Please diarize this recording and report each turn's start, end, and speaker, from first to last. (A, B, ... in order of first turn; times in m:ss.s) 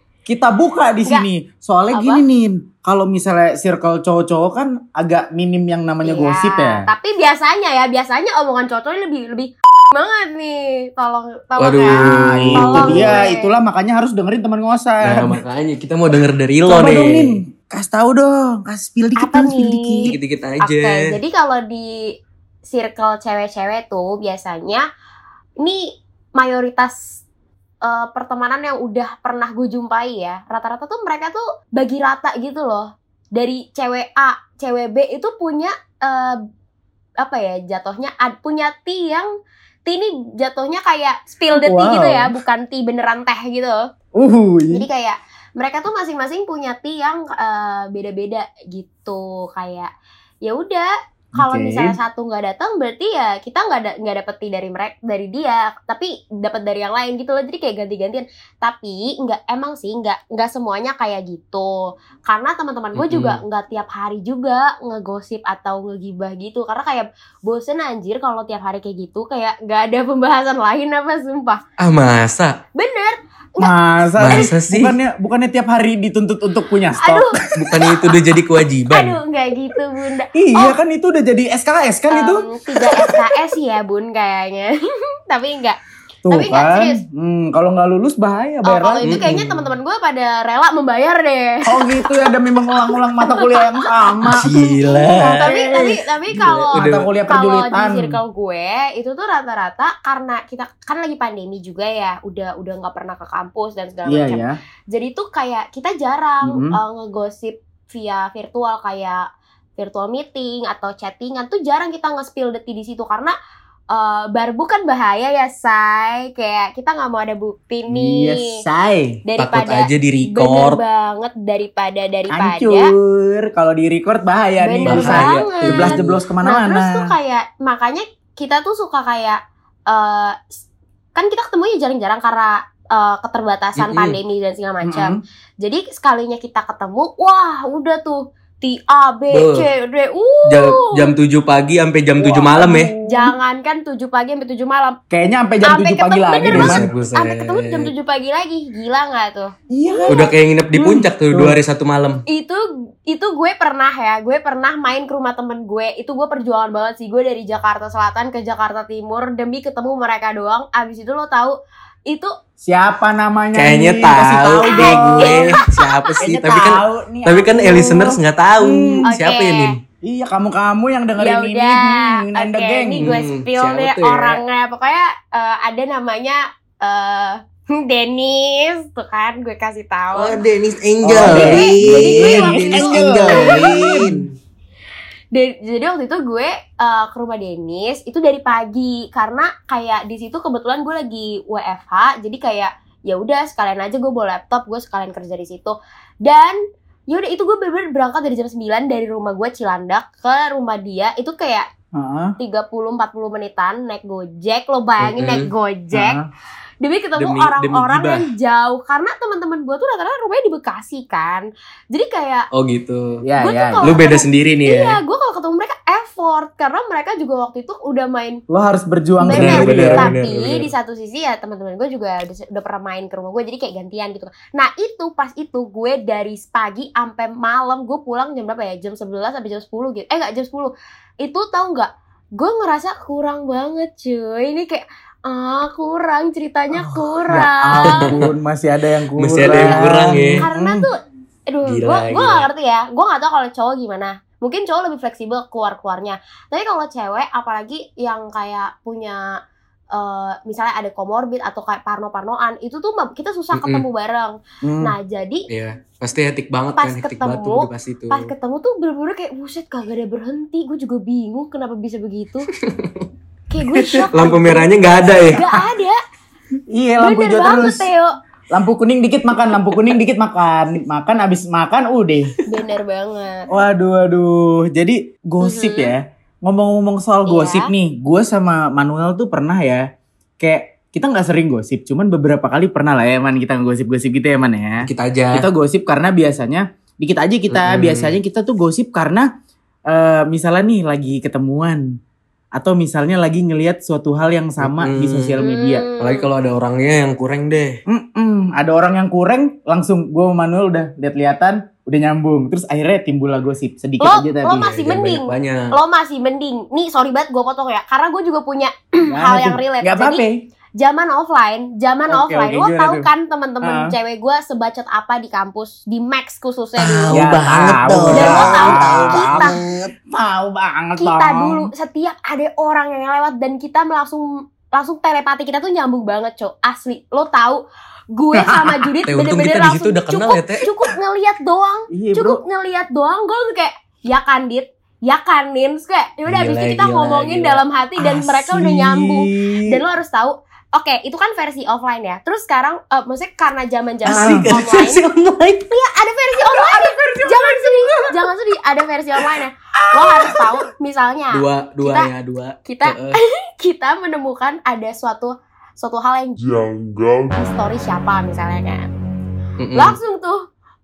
0:00.3-0:06.8 A
0:01.9-0:02.2 B
0:06.0-0:13.5 B
0:11.6-0:13.2 C
0:11.9-0:15.4 A
0:15.0-0:17.4 C
0:16.7-0:20.2 A
0:19.2-0:22.0 B
0:20.1-0:21.1 C
0:22.6-0:24.8 B
0:25.6-0:27.2 B
0:27.8-0:36.4 B
0:37.2-0:39.3 B
0:39.9-0:43.9 B
0:41.6-0:42.3 A
0:44.2-0:44.9 A
0:44.7-0:49.9 B
0:50.4-1:11.6 B
0:51.4-0:52.0 A
1:03.0-1:03.4 C
1:11.8-1:12.6 C
1:12.8-1:13.7 B
1:13.6-1:17.7 A
1:14.2-1:15.0 C
1:17.0-1:17.8 B
1:17.6-1:19.2 C
1:18.9-1:20.8 B
1:20.4-1:23.2 A
1:22.1-1:24.7 B
1:25.3-1:25.8 B
1:26.3-1:29.3 A
1:26.3-1:27.0 B
1:28.7-1:49.2 B
1:29.0-1:29.7 C
1:31.7-1:36.0 A
1:34.3-1:35.5 C
1:36.3-1:37.1 C
1:36.7-1:38.2 A
1:44.1-1:44.6 A
1:46.4-1:46.8 A
1:49.8-1:53.3 B
1:53.9-1:58.6 B
1:57.9-1:59.2 A
1:59.3-2:02.9 B
1:59.4-2:00.8 C
2:02.3-2:07.1 A
2:04.6-2:10.6 B
2:04.9-2:06.2 C
2:11.2-2:21.1 B
2:13.8-2:14.2 C
2:14.8-2:15.2 A
2:19.3-2:19.7 C
2:20.5-2:22.9 C
2:22.2-2:23.3 A
2:23.1-2:25.0 B
2:25.1-2:26.9 A
2:25.6-2:30.2 B
2:26.5-2:27.9 C
2:29.7-2:31.6 A
2:30.1-2:32.2 C
2:32.3-2:41.6 B
2:42.6-2:45.6 A
2:43.5-2:49.8 C
2:44.7-2:46.2 B
2:46.2-2:49.1 A
2:49.1-2:49.8 B
2:50.0-2:53.2 A
2:51.2-3:00.4 B
2:53.0-2:54.4 C
3:00.2-3:04.3 C
3:01.0-3:04.2 A
3:01.2-3:04.0 B
3:05.3-3:16.6 B
3:17.1-3:21.7 B
3:22.0-3:22.4 A
3:22.4-3:26.2 B
3:25.0-3:25.5 C
3:25.9-3:26.3 A
3:26.8-3:32.5 B
3:27.2-3:28.3 C
3:32.5-3:33.2 C
3:33.2-3:34.0 A
3:33.4-3:38.4 B
3:33.8-3:35.0 C
3:38.5-3:40.1 A
3:39.2-3:58.1 B
3:39.3-3:40.7 C
3:56.8-4:00.9 A
3:59.2-4:00.4 C
3:59.5-3:59.9 B
4:00.4-4:01.0 B
4:01.5-4:09.2 B
4:01.6-4:02.5 C
4:09.9-4:15.5 B
4:13.5-4:13.8 C
4:14.6-4:15.0 A
4:15.5-4:18.3 C
4:16.8-4:22.5 B
4:22.5-4:23.1 C
4:23.5-4:26.0 B
4:23.8-4:25.4 C
4:26.7-4:27.9 A
4:27.0-4:28.1 B
4:28.5-4:32.3 A
4:32.5-4:33.5 B
4:33.5-4:39.9 A
4:35.4-4:35.9 B
4:37.3-4:37.7 B
4:40.4-4:49.3 A
4:44.8-4:45.5 C
4:47.5-4:48.2 C
4:49.9-4:51.8 A
4:52.6-4:55.8 A
4:54.6-4:55.4 C
4:55.4-4:56.3 B
4:56.0-4:57.8 C
4:57.9-5:04.7 A
5:04.0-5:10.2 B
5:04.5-5:05.7 C
5:09.1-5:10.4 A
5:10.8-5:17.3 B
5:12.1-5:13.1 A
5:13.6-5:13.9 A
5:16.8-5:19.9 C
5:17.1-5:21.7 A
5:18.1-5:19.6 B
5:21.0-5:27.6 B
5:28.1-5:45.0 B
5:28.4-5:28.9 A
5:29.1-5:30.7 C
5:31.9-5:32.4 A
5:36.3-5:37.6 C
5:38.0-5:39.8 A
5:44.1-5:45.7 C
5:44.1-5:44.5 A
5:45.7-5:52.1 B
5:46.5-5:48.1 A
5:49.8-5:50.6 A
5:51.3-5:53.2 C
5:52.6-5:58.9 B
5:59.6-6:00.0 C
5:59.8-6:00.4 B